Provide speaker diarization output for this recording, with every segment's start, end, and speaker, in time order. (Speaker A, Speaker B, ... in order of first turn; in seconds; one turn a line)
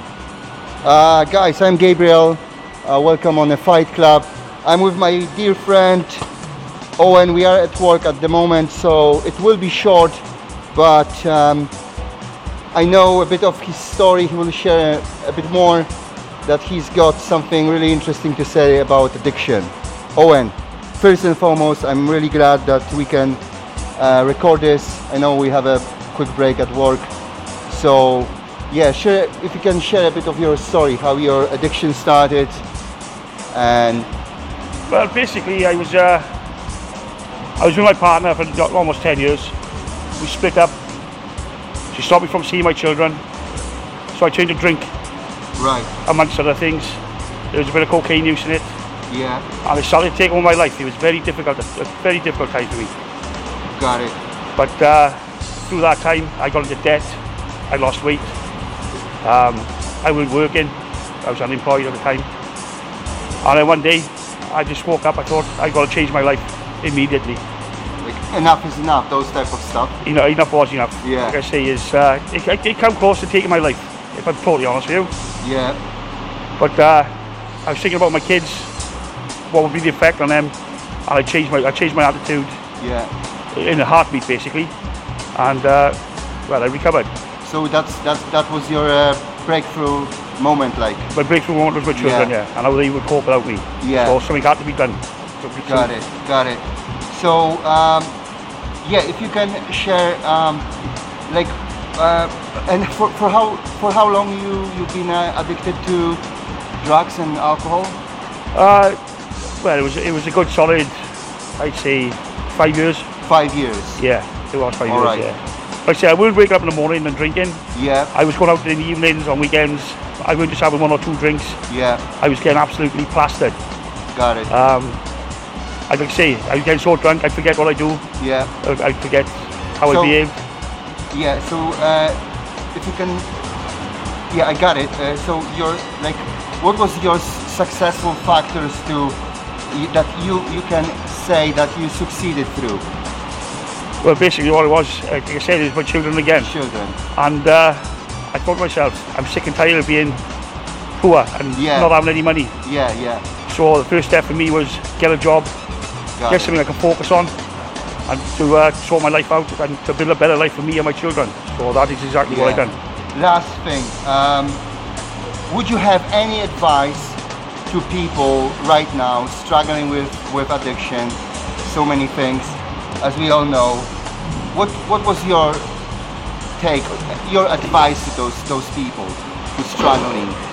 Speaker A: 0.8-6.3
Speaker A: 7.0-10.2
Speaker A: 10.7-11.7
Speaker A: 12.7-15.9
Speaker A: 16.4-23.4
Speaker A: 24.0-27.1
Speaker A: 27.7-32.6
Speaker A: 33.5-34.1
Speaker B: 34.9-36.3
Speaker B: 37.6-39.5
Speaker B: 40.2-40.8
Speaker B: 41.9-43.2
Speaker B: 44.1-44.9
Speaker A: 45.6-45.9
Speaker B: 46.0-47.0
Speaker B: 47.5-48.7
Speaker A: 49.1-49.5
Speaker B: 49.6-52.9
Speaker A: 53.8-54.2
Speaker B: 54.6-55.2
Speaker B: 55.7-58.3
Speaker B: 59.2-62.3
Speaker B: 63.4-67.4
Speaker A: 68.0-70.0
Speaker B: 70.0-75.1
Speaker A: 71.0-71.4
Speaker A: 75.4-75.8
Speaker B: 76.6-77.1
Speaker B: 77.7-78.7
Speaker B: 79.5-80.5
Speaker B: 81.1-82.6
Speaker A: 82.8-83.1
Speaker B: 83.5-84.7
Speaker B: 85.3-87.1
Speaker A: 87.4-91.1
Speaker B: 91.1-95.9
Speaker A: 91.9-92.3
Speaker A: 93.8-94.2
Speaker A: 95.6-98.1
Speaker A: 98.8-100.7
Speaker A: 101.3-106.2
Speaker A: 106.8-108.0
Speaker B: 108.5-109.0
Speaker B: 109.6-111.0
Speaker B: 111.6-113.1
Speaker A: 113.3-114.0
Speaker B: 114.0-121.6
Speaker A: 114.9-115.3
Speaker A: 117.8-118.1
Speaker A: 121.7-122.0
Speaker B: 122.2-123.6
Speaker A: 124.1-124.5
Speaker B: 124.5-125.0
Speaker B: 125.9-128.0
Speaker A: 128.2-128.5
Speaker B: 128.6-130.4
Speaker A: 129.8-130.2
Speaker A: 131.1-132.2
Speaker A: 132.7-133.3
Speaker A: 134.3-139.2
Speaker A: 139.7-142.8
Speaker B: 144.0-146.5
Speaker A: 146.4-147.0
Speaker B: 147.1-150.2
Speaker B: 151.0-152.6
Speaker A: 151.5-152.0
Speaker A: 152.6-153.2
Speaker B: 153.5-155.5
Speaker A: 156.2-156.6
Speaker B: 156.3-157.3
Speaker B: 158.1-162.7
Speaker A: 162.3-164.6
Speaker A: 165.5-173.9
Speaker A: 174.5-175.7
Speaker A: 176.6-180.4